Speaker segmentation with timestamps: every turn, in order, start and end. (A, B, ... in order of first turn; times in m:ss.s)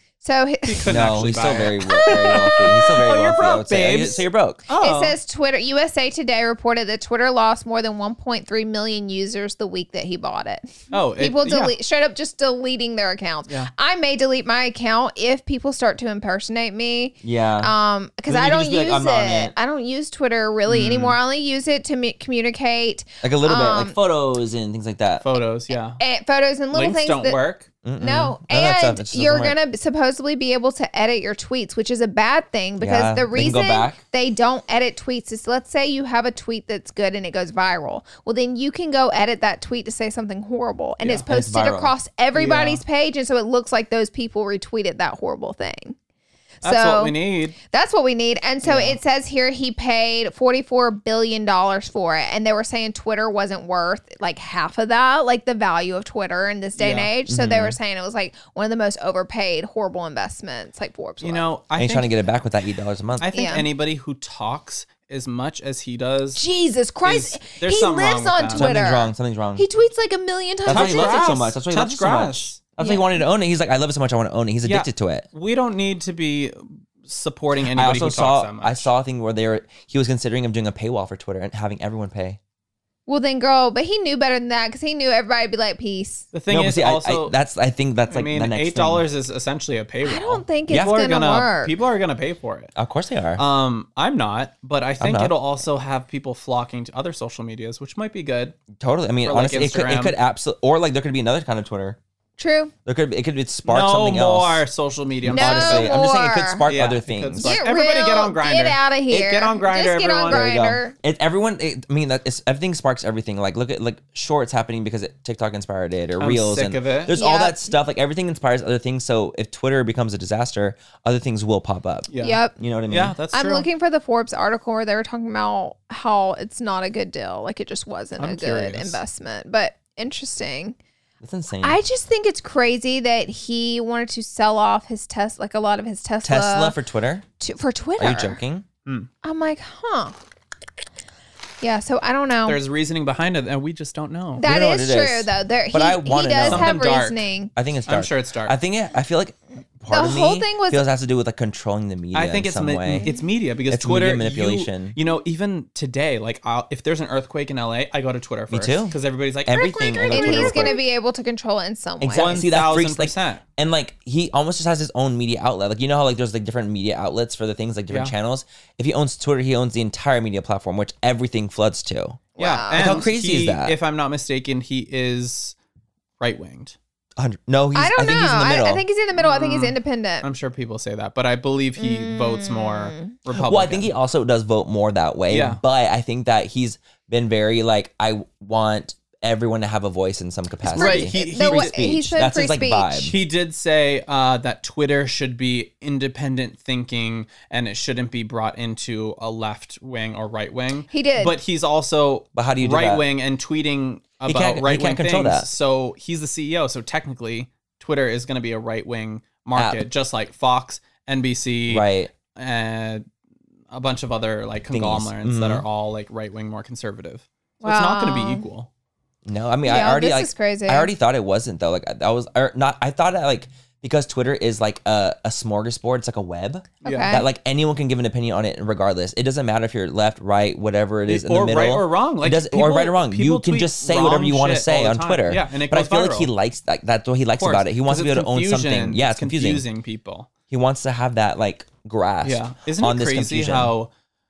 0:00.2-0:02.5 A
0:00.7-0:05.2 B
0:00.9-0:04.6 C
0:04.8-0:24.0 A
0:10.9-0:11.8 B
0:17.2-0:17.7 C
0:18.3-0:19.5 C
0:20.7-0:21.2 B
0:23.2-0:25.3 C
0:25.2-0:26.0 B
0:25.7-0:27.4 A
0:26.7-0:27.7 B
0:27.8-0:29.6 C
0:28.0-0:46.0 A
0:32.8-0:34.0 C
0:41.3-0:41.9 C
0:42.3-0:42.8 B
0:46.6-1:01.5 A
0:46.6-0:47.6 B
0:48.6-0:49.0 B
0:56.8-0:57.1 B
0:57.3-0:57.8 C
1:01.2-1:02.1 B
1:01.8-1:03.3 C
1:03.2-1:06.4 B
1:03.3-1:03.7 A
1:06.4-1:11.5 A
1:07.0-1:08.7 B
1:08.6-1:09.6 C
1:10.6-1:15.2 C
1:10.7-1:12.6 B
1:12.8-1:13.1 A
1:14.6-1:18.9 B
1:17.6-1:22.4 C
1:23.1-1:26.3 A
1:26.3-1:27.4 B
1:26.5-1:29.0 C
1:28.1-1:32.7 B
1:30.0-1:31.7 A
1:30.7-1:30.9 C
1:32.8-1:33.4 C
1:33.4-1:38.6 B
1:35.0-1:35.4 C
1:38.8-1:42.0 C
1:39.2-1:40.2 B
1:42.4-1:42.7 A
1:42.9-1:44.6 C
1:43.6-1:46.0 B
1:45.2-1:47.6 C
1:45.3-1:46.6 A
1:46.7-1:50.6 B
1:47.4-1:50.9 A
1:50.3-2:03.2 C
1:56.2-1:57.1 B
1:57.1-1:57.7 A
2:02.1-2:03.7 B
2:02.2-2:02.6 A
2:03.3-2:10.8 A
2:08.2-2:09.0 B
2:11.2-2:11.8 C
2:11.6-2:16.8 A
2:16.2-2:17.2 C
2:17.4-2:18.4 A
2:18.0-2:18.6 C
2:19.2-2:20.2 A
2:21.6-2:22.6 A
2:22.5-2:24.5 B
2:24.4-2:27.5 A
2:24.4-2:26.7 C
2:26.4-2:27.2 B
2:27.6-2:33.1 C
2:27.9-2:28.6 B
2:29.9-2:30.8 A
2:32.1-2:40.8 B
2:32.9-2:33.2 A
2:33.7-2:35.0 C
2:38.5-2:40.8 C
2:39.6-2:42.4 A
2:42.0-2:53.7 C
2:42.1-2:43.4 B
2:47.9-2:48.1 B
2:52.4-2:53.1 A
2:52.4-2:55.6 B
2:56.2-2:56.8 B
2:57.2-2:58.8 C
2:57.7-3:00.3 A
2:59.2-3:03.9 B
3:01.8-3:03.1 A
3:03.3-3:13.2 C
3:05.3-3:05.6 B
3:10.6-3:11.9 B
3:10.7-3:13.0 A
3:13.0-3:33.0 B
3:20.9-3:21.4 A
3:22.4-3:23.0 C
3:24.3-3:25.5 C
3:29.6-3:29.8 C
3:31.7-3:32.1 C
3:33.7-3:38.7 B
3:34.7-3:35.6 C
3:37.6-3:38.4 A
3:39.3-3:59.6 C
3:39.6-3:40.9 A
3:46.8-3:47.2 B
3:46.8-3:47.3 A
3:51.1-3:56.3 B
3:57.4-4:00.3 B
4:00.5-4:03.7 C
4:02.2-4:03.9 B